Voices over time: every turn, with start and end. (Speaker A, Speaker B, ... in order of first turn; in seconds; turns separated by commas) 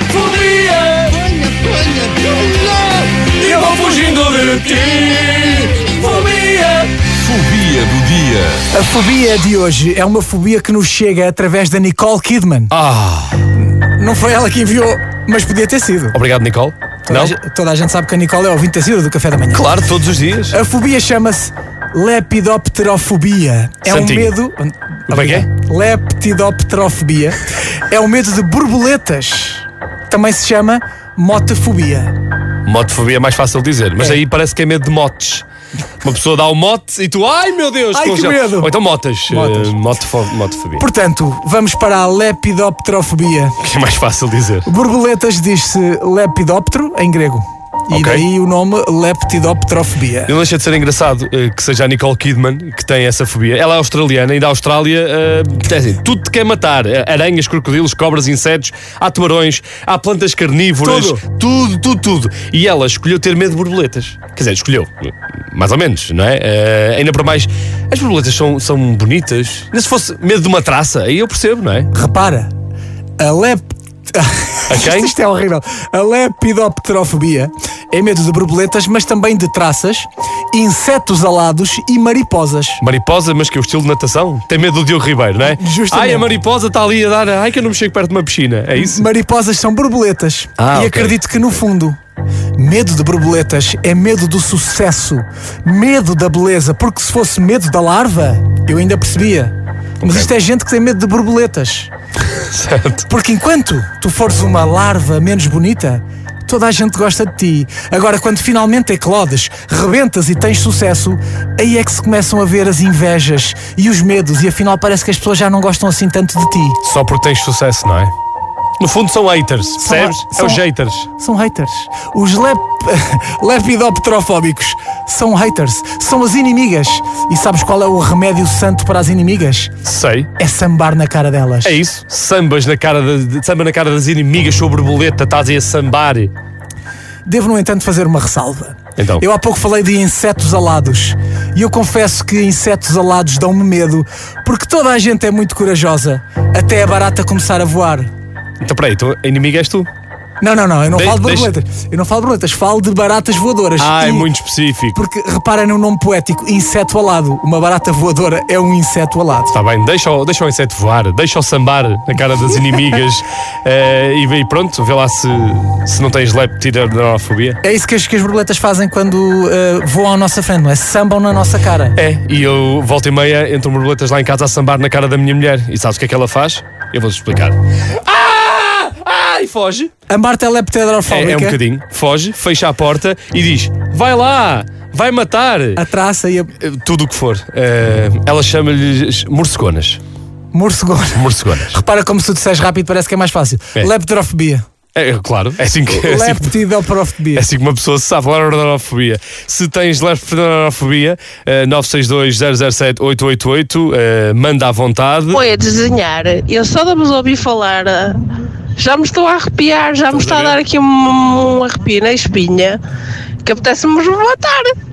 Speaker A: 0.1-1.1, Speaker B: 1.2-3.1, Speaker A: 3.3-6.9, Speaker B: 7.1-8.7, Speaker C: 8.7-12.7, Speaker A: 12.7-13.5, Speaker C: 13.6-16.2, Speaker A: 16.1-17.3, Speaker C: 17.1-19.8, Speaker A: 19.5-20.6, Speaker C: 20.5-32.1, Speaker A: 23.9-24.4, Speaker A: 25.1-25.5, Speaker A: 32.6-35.5, Speaker A: 36.0-40.8, Speaker C: 37.9-38.7, Speaker C: 39.3-39.8, Speaker C: 40.8-43.5, Speaker A: 43.6-44.7, Speaker C: 44.7-50.3, Speaker A: 47.9-48.3, Speaker A: 50.3-64.9, Speaker C: 60.8-61.2, Speaker A: 65.5-71.9, Speaker C: 71.9-72.5, Speaker C: 73.2-82.8, Speaker A: 74.7-75.1, Speaker A: 82.8-89.1, Speaker C: 85.5-86.3, Speaker C: 88.8-92.0, Speaker A: 90.6-91.2, Speaker C: 92.6-101.9, Speaker A: 100.0-100.3, Speaker A: 102.4-103.1, Speaker C: 103.1-116.8, Speaker A: 116.8-118.1, Speaker A: 118.8-121.1, Speaker C: 119.8-120.6, Speaker C: 121.2-129.7, Speaker A: 129.8-130.3, Speaker C: 130.4-131.8, Speaker A: 131.6-136.3, Speaker C: 137.3-148.1, Speaker A: 139.0-139.2, Speaker A: 148.6-149.9, Speaker C: 150.4-154.3, Speaker A: 150.9-151.5, Speaker A: 153.8-155.0, Speaker C: 154.9-159.5, Speaker A: 159.5-167.6, Speaker C: 167.6-172.0, Speaker A: 172.0-179.9, Speaker C: 180.1-181.6, Speaker A: 181.1-185.8, Speaker C: 185.8-186.5, Speaker A: 186.6-190.0, Speaker C: 190.5-194.7, Speaker A: 191.2-191.8, Speaker A: 194.9-196.6, Speaker C: 195.9-197.5, Speaker A: 197.3-205.4, Speaker D: 205.3-212.8, Speaker A: 210.1-210.6, Speaker D: 213.4-214.8